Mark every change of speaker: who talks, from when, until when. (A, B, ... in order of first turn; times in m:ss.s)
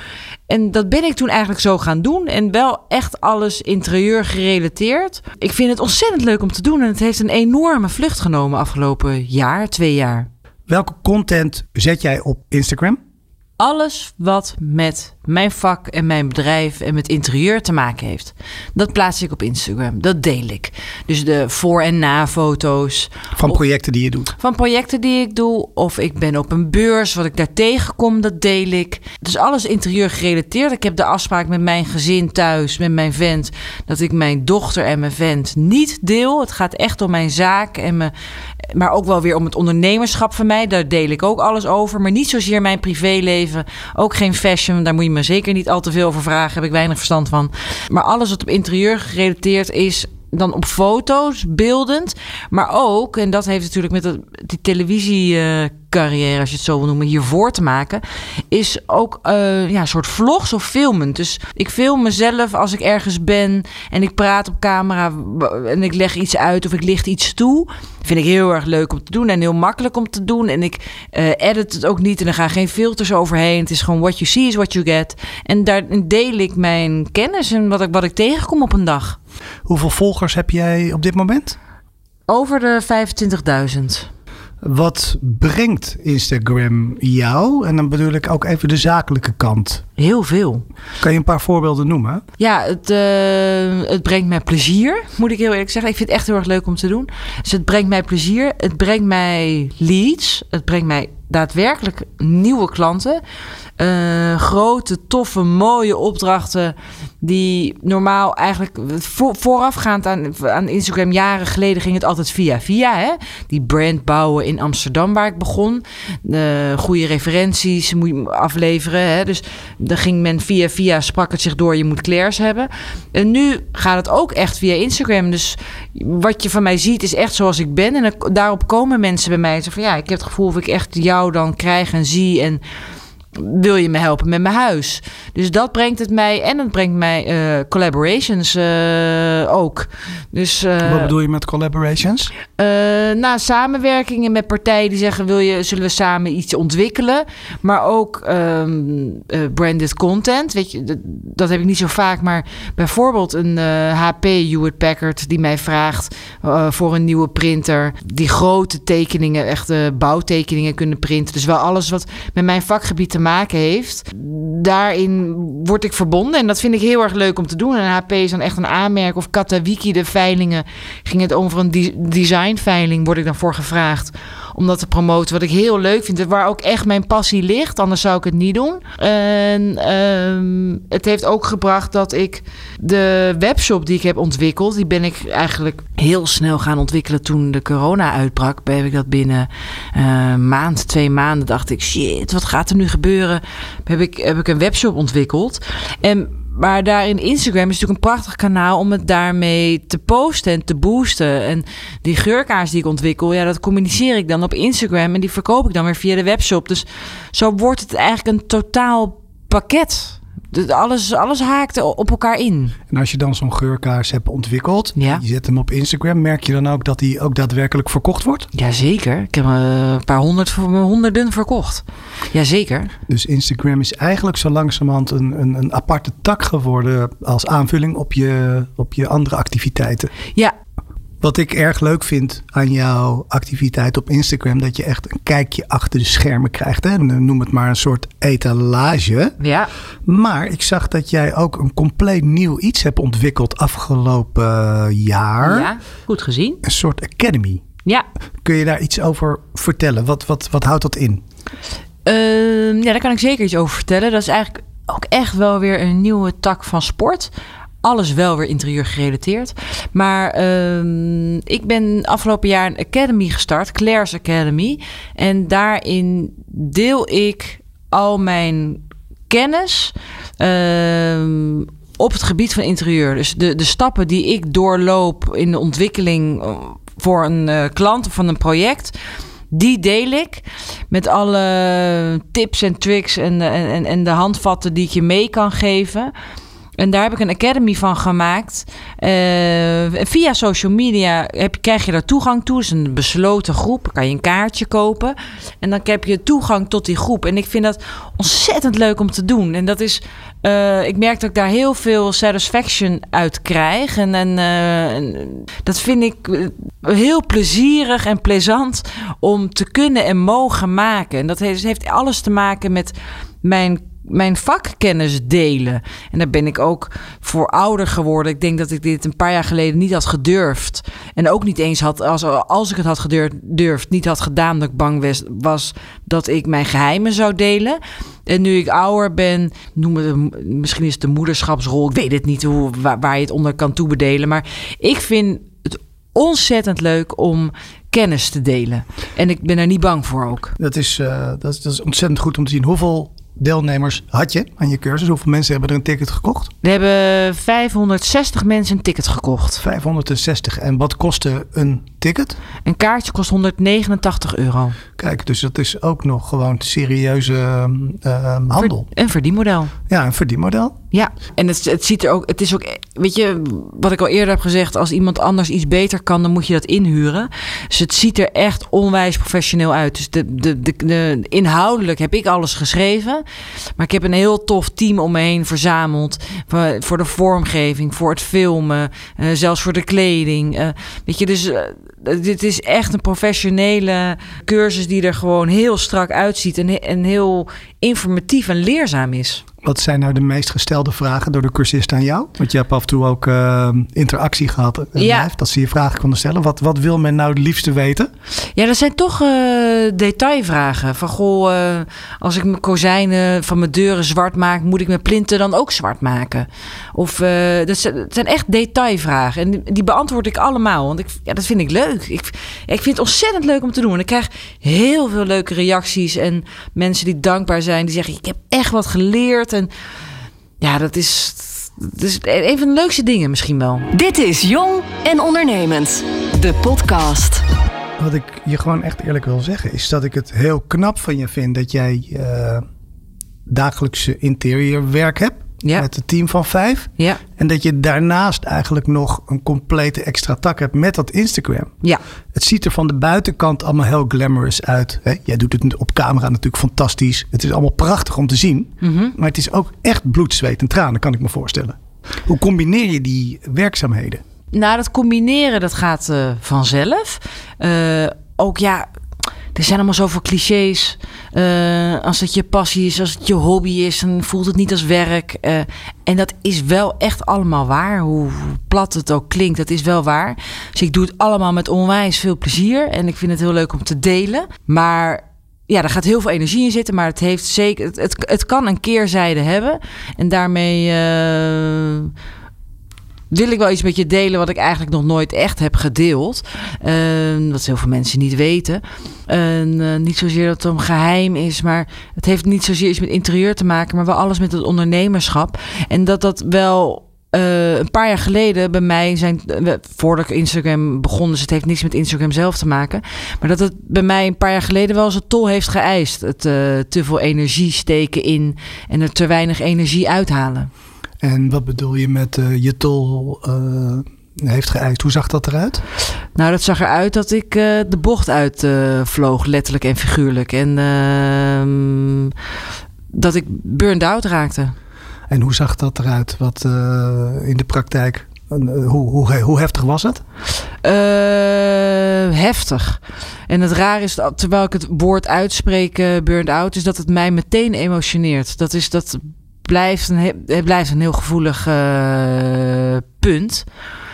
0:00.5-0:10.3 A
0:10.7-0:13.0 B
0:13.6-0:23.1 A
0:23.4-0:24.4 B
0:24.4-0:38.1 A
0:38.7-1:19.2 A
1:19.7-1:21.6 B
1:22.3-1:24.1 A
1:24.6-1:29.8 B
1:30.0-1:30.6 A
1:31.0-1:32.2 B
1:32.4-1:43.2 A
1:43.8-2:12.6 A
2:13.4-2:21.1 A
2:20.8-2:22.3 B
2:22.6-3:32.8 A
3:32.9-3:38.5 B
3:35.0-3:35.2 A
3:38.5-3:42.9 A
3:43.1-3:50.1 B
3:51.2-3:59.4 B
3:59.4-3:59.7 A
4:00.1-4:05.7 B
4:05.4-4:06.6 A
4:06.6-4:07.6 B
4:08.4-4:11.2 B
4:12.1-4:17.3 A
4:17.8-4:39.0 A
4:39.5-4:46.1 A
4:46.8-5:40.6 A
5:40.6-5:46.5 B
5:46.6-5:49.6 A
5:49.6-5:52.4 B
5:52.6-5:54.8 A
5:55.0-5:58.9 B
5:58.6-5:59.7 A
5:59.9-6:00.8 B
6:00.9-6:13.2 A
6:13.8-6:29.4 A
6:29.6-6:38.1 B
6:35.0-6:35.3 A
6:38.6-6:59.7 A
7:00.6-7:03.9 A
7:03.9-7:07.4 C
7:08.0-7:12.6 B
7:13.5-7:21.7 B
7:22.3-7:34.2 B
7:28.8-7:29.1 A
7:34.5-7:38.9 A
7:39.5-8:02.1 A
8:03.3-8:30.7 A
8:31.2-8:35.8 B
8:36.4-8:42.3 A
8:43.1-8:44.8 A
8:45.3-8:50.2 B
8:50.8-9:03.7 A